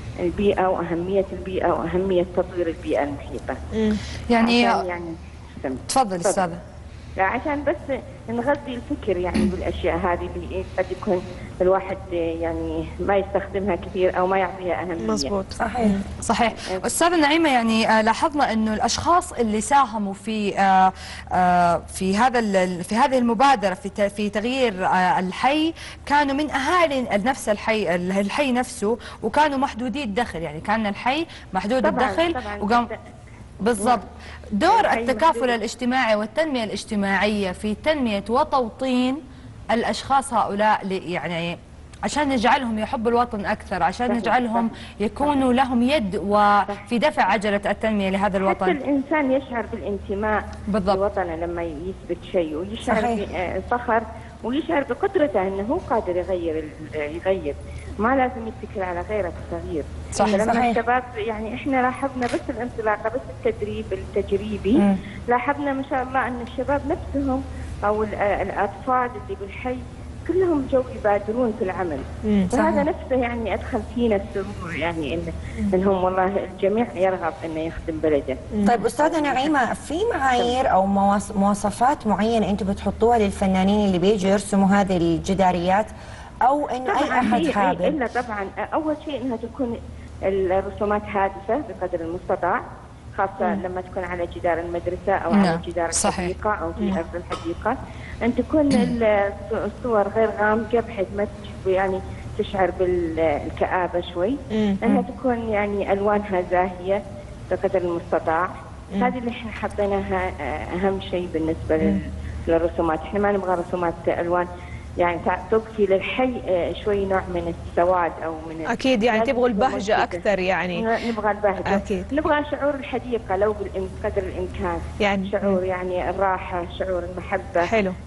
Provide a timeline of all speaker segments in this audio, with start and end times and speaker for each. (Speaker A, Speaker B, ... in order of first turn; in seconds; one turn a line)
Speaker A: 0.2-3.6
Speaker B: 3.7-4.0
Speaker C: 4.3-4.8
Speaker A: 4.4-6.5
Speaker C: 5.9-6.6
Speaker A: 7.2-15.3
Speaker B: 15.0-16.0
Speaker D: 15.6-16.0
Speaker C: 16.2-32.9
Speaker A: 16.6-16.8
Speaker A: 31.8-33.0
Speaker C: 33.6-39.2
Speaker A: 33.8-34.0
Speaker A: 34.7-35.6
Speaker C: 39.7-48.8
Speaker A: 44.1-45.4
Speaker A: 48.4-79.5
Speaker C: 50.7-51.0
Speaker D: 52.8-53.2
Speaker C: 60.1-60.5
Speaker D: 60.3-60.8
Speaker B: 72.2-72.5
Speaker D: 72.5-72.9
Speaker B: 78.5-78.8
Speaker D: 78.6-85.9
Speaker A: 80.3-80.6
Speaker D: 86.4-88.0
Speaker A: 86.8-89.7
Speaker A: 90.3-92.6
Speaker A: 93.2-107.0
Speaker C: 95.3-96.3
Speaker B: 104.5-105.0
Speaker A: 107.5-114.5
Speaker A: 115.0-120.2
Speaker B: 118.7-120.9
Speaker A: 120.8-127.7
Speaker B: 121.6-122.1
Speaker B: 125.0-125.6
Speaker B: 127.6-128.0